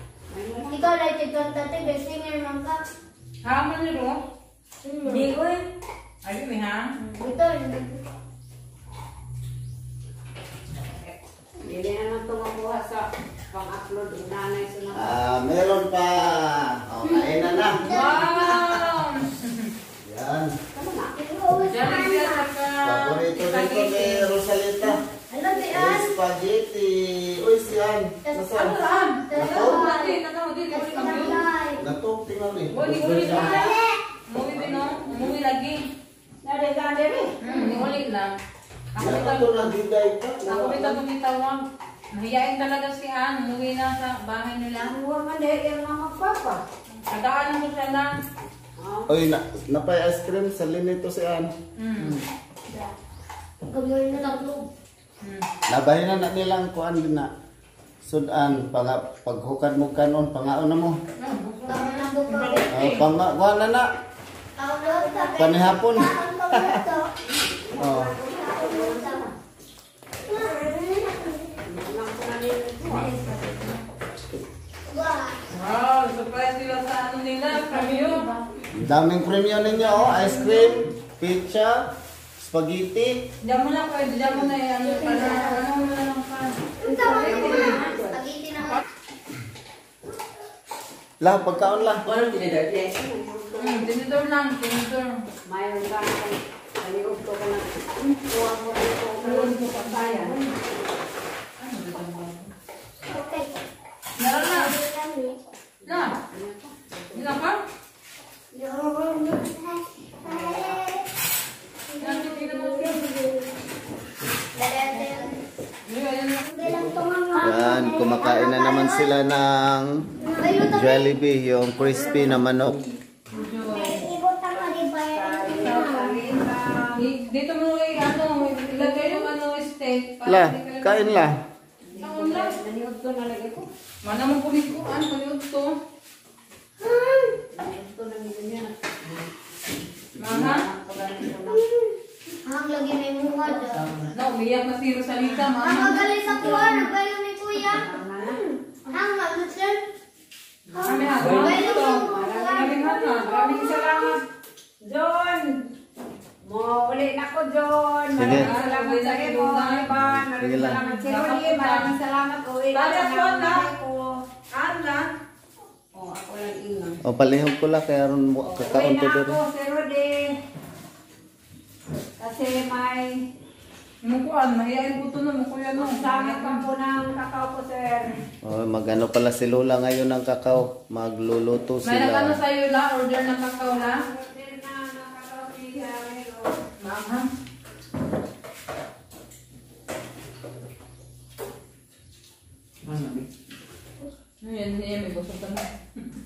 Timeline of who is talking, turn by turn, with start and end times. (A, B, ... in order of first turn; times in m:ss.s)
0:00.3-0:00.9 A
0:00.7-0:02.8 B
0:03.4-0:04.2 C
0:04.8-0:05.7 B
0:06.2-0:06.9 C
0:07.0-0:08.0 B
0:11.6-0:15.2 A
0:14.9-0:17.8 D
0:17.0-0:18.8 B
0:17.8-0:19.7 C
0:20.0-0:20.6 D
0:20.7-0:21.2 A
0:21.1-0:22.4 B
0:21.6-0:24.3 C
0:22.8-0:25.0 D
0:25.3-0:26.2 B
0:25.5-0:28.8 D
0:28.5-0:31.4 C
0:29.3-0:30.2 B
0:29.3-0:29.9 D
0:30.7-0:31.8 B
0:31.8-0:33.3 D
0:32.7-0:35.8 C
0:32.8-0:33.7 E
0:33.3-0:34.0 B
0:34.5-0:35.4 D
0:36.4-0:37.8 A
0:37.4-0:38.3 C
0:37.5-0:37.8 B
0:38.9-0:39.7 C
0:39.0-0:41.0 D
0:40.5-0:44.9 C
0:44.8-0:46.6 A
0:47.0-0:48.1 C
0:48.8-0:49.1 A
0:49.1-0:51.5 D
0:51.8-0:52.2 C
0:53.7-0:54.7 B
0:55.2-0:55.5 C
0:55.7-0:57.3 D
0:58.0-1:01.0 D
1:01.2-1:03.0 C
1:01.6-1:02.7 B
1:02.7-1:03.9 D
1:04.6-1:07.1 B
1:05.3-1:06.8 D
1:07.2-1:09.3 A
1:07.8-1:08.1 D
1:08.4-1:09.2 B
1:10.2-1:11.6 B
1:11.6-1:13.2 A
1:13.0-1:13.7 C
1:14.9-1:15.4 B
1:15.5-1:18.4 C
1:18.7-1:21.8 D
1:19.8-1:20.3 C
1:22.4-1:23.2 D
1:23.4-1:26.5 C
1:24.8-1:25.6 B
1:26.8-1:28.8 B
1:26.9-1:28.2 A
1:27.2-1:27.8 C
1:31.2-1:32.0 D
1:32.0-1:33.0 E
1:32.7-1:33.9 A
1:33.6-1:35.2 C
1:35.4-1:40.6 A
1:39.2-1:40.4 C
1:41.6-1:42.5 C
1:43.0-1:43.6 B
1:44.2-1:44.7 C
1:44.4-1:45.4 B
1:45.8-1:47.3 A
1:45.8-1:46.1 C
1:47.1-1:47.6 C
1:48.5-1:51.0 B
1:50.2-1:50.8 A
1:52.0-1:53.1 C
1:52.0-1:53.5 B
1:54.5-1:55.4 B
1:55.9-1:56.6 C
1:56.4-1:59.1 B
1:57.4-2:00.0 D
2:00.2-2:01.1 B
2:00.6-2:02.8 D
2:01.8-2:02.3 B
2:03.3-2:04.0 C
2:03.6-2:06.2 B
2:04.5-2:06.9 A
2:05.6-2:06.0 C
2:07.0-2:11.2 C
2:08.8-2:09.2 B
2:10.2-2:11.4 D
2:11.8-2:13.7 A
2:12.0-2:12.5 C
2:14.0-2:15.7 C
2:16.8-2:17.4 B
2:17.5-2:19.3 A
2:20.2-2:20.6 C
2:20.3-2:21.6 A
2:21.5-2:21.9 B
2:22.4-2:23.9 B
2:23.4-2:24.1 E
2:24.1-2:26.8 C
2:25.4-2:29.8 B
2:26.4-2:26.8 A
2:27.6-2:28.4 A
2:30.7-2:34.1 B
2:30.8-2:33.8 C
2:30.8-2:34.2 A
2:31.1-2:31.6 E
2:34.8-2:35.6 A
2:36.4-2:44.1 A
2:38.2-2:38.5 D
2:38.3-2:39.8 C
2:39.9-2:40.8 D
2:40.8-2:41.9 C
2:42.7-2:43.6 C
2:44.5-2:45.0 C
2:45.9-2:47.0 A
2:47.0-2:49.4 D
2:48.4-2:50.3 A
2:52.2-2:53.2 A
2:54.0-2:56.6 C
2:55.7-2:58.1 A
2:58.4-3:02.4 D
3:01.8-3:03.9 C
3:03.6-3:06.6 A
3:06.8-3:07.3 C
3:12.8-3:13.2 E
3:14.4-3:16.0 C